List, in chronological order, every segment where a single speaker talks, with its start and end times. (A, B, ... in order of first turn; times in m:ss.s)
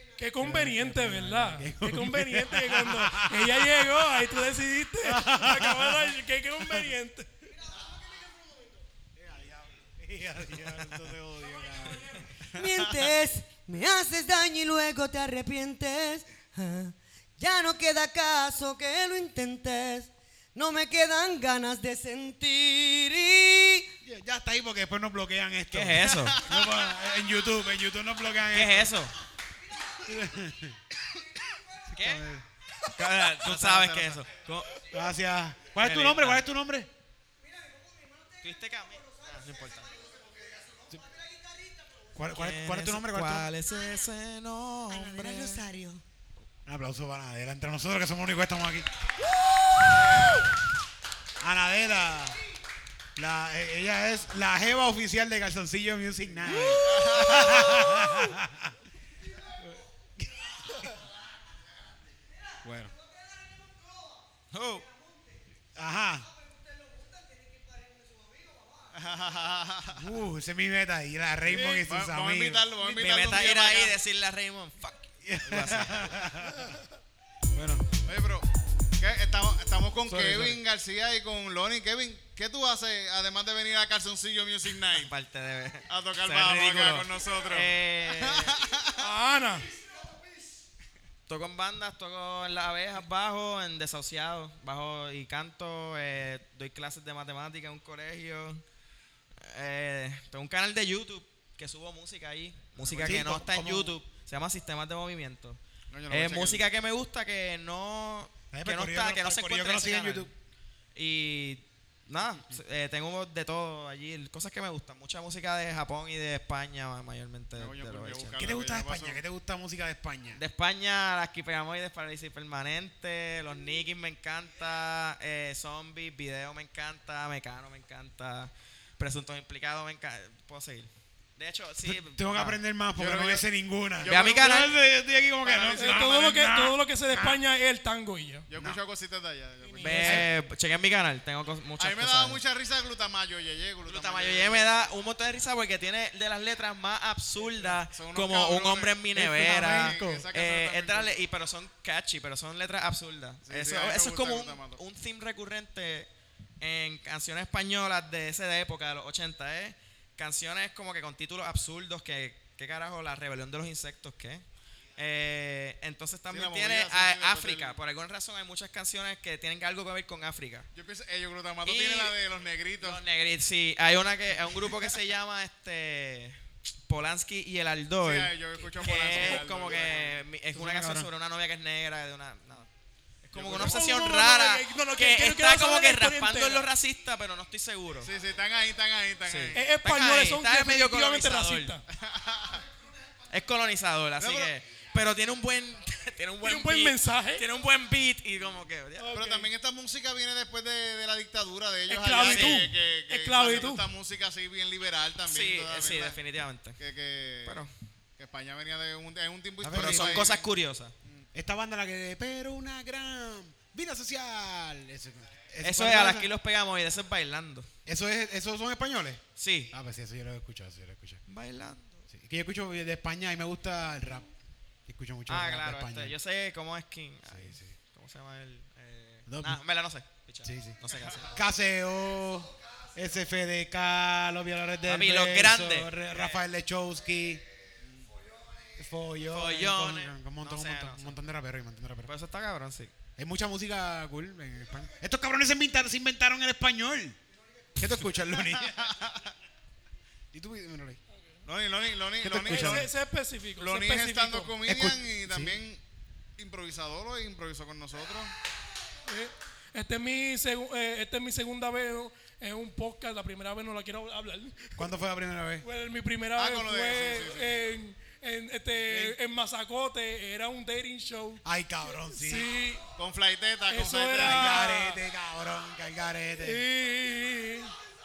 0:00.2-0:07.5 A
0:00.4-0:04.3 B
0:05.0-0:06.8 B
0:08.1-0:08.6 C
0:09.2-0:12.2 B
0:12.5-0:23.9 C
0:24.0-0:29.0 B
0:25.7-0:26.4 D
0:26.1-0:26.7 E
0:28.5-0:29.1 D
0:30.0-0:30.8 B
0:31.9-0:32.4 B
0:31.9-0:32.2 D
0:32.9-0:34.8 D
0:33.3-0:34.2 E
0:34.9-0:36.9 B
0:35.8-0:36.4 D
0:37.9-0:38.3 C
0:38.4-0:40.1 D
0:40.0-0:41.7 C
0:42.1-0:43.5 B
0:42.3-0:45.6 D
0:44.9-0:46.0 C
0:46.6-0:48.9 B
0:49.8-0:50.5 E
0:51.4-0:52.4 B
0:53.2-0:58.8 B
0:56.7-0:58.0 E
0:59.6-1:01.0 B
1:02.6-1:02.9 B
1:04.5-1:04.9 D
1:05.7-1:06.3 B
1:08.9-1:10.1 E
1:09.9-1:12.7 B
1:11.5-1:14.0 E
1:12.8-1:16.2 D
1:15.2-1:16.8 B
1:17.5-1:17.9 B
1:18.0-1:18.5 E
1:19.0-1:25.1 E
1:20.0-1:20.6 B
1:24.9-1:28.6 D
1:25.9-1:29.0 E
1:29.0-1:29.7 A
1:31.3-1:38.6 D
1:39.4-1:45.6 D
1:42.8-1:43.3 E
1:43.0-1:44.0 B
1:45.9-1:46.6 E
1:46.1-1:50.3 D
1:48.5-1:50.3 B
1:50.9-1:58.4 D
1:57.6-1:59.2 E
1:58.4-2:00.4 B
2:00.3-2:12.6 D
2:11.8-2:17.4 B
2:13.0-2:13.4 E
2:14.0-2:14.7 E
2:14.0-2:14.7 D
2:15.4-2:16.1 E
2:15.7-2:18.5 A
2:18.5-2:20.2 E
2:19.6-2:20.3 A
2:19.8-2:22.4 D
2:21.8-2:24.8 E
2:23.8-2:36.1 D
2:27.9-2:29.0 E
2:29.1-2:30.2 B
2:29.5-2:31.1 E
2:33.4-2:34.8 E
2:36.6-2:44.4 D
2:45.0-2:50.7 D
2:46.3-2:47.8 E
2:50.7-2:53.0 E
2:51.6-2:52.1 D
2:52.8-3:02.7 D
2:58.0-3:00.2 E
3:00.5-3:01.1 B
3:03.2-3:08.1 D
3:03.3-3:03.9 E
3:03.5-3:06.7 A
3:08.0-3:09.6 E
3:09.2-3:11.8 D
3:09.5-3:11.8 A
3:12.0-3:12.6 E
3:13.3-3:19.1 D
3:14.2-3:14.5 E
3:16.4-3:17.5 A
3:19.0-3:19.5 A
3:19.1-3:26.2 E
3:21.9-3:23.8 A
3:22.2-3:22.7 D
3:25.2-3:26.8 D
3:26.8-3:27.6 E
3:27.4-3:27.7 D
3:28.2-3:30.5 E
3:29.6-3:30.3 B
3:29.7-3:30.9 D
3:31.3-3:36.3 B
3:35.6-3:37.7 D
3:37.8-3:41.2 B
3:39.4-3:39.7 D
3:41.3-3:42.1 D
3:42.1-3:44.3 B
3:44.9-3:46.2 B
3:45.3-3:51.4 D
3:47.3-3:47.7 B
3:49.3-3:49.6 B
3:50.4-3:57.4 B
3:50.9-3:51.2 E
3:54.9-3:56.4 D
3:58.8-4:02.1 B
3:59.3-4:01.2 D
4:02.0-4:02.9 D
4:03.2-4:07.2 B
4:07.8-4:09.0 B
4:08.4-4:09.3 E
4:10.3-4:11.0 B
4:11.4-4:12.9 E
4:12.2-4:12.9 B
4:12.4-4:14.5 A
4:13.6-4:15.8 E
4:14.6-4:15.6 B
4:16.4-4:18.3 E
4:19.0-4:24.8 A
4:24.8-4:25.6 B
4:25.6-4:32.8 A
4:26.4-4:27.6 E
4:28.7-4:29.2 B
4:31.4-4:32.5 B
4:33.0-4:34.6 E
4:33.7-4:35.0 A
4:34.2-4:36.6 B
4:36.4-4:37.7 A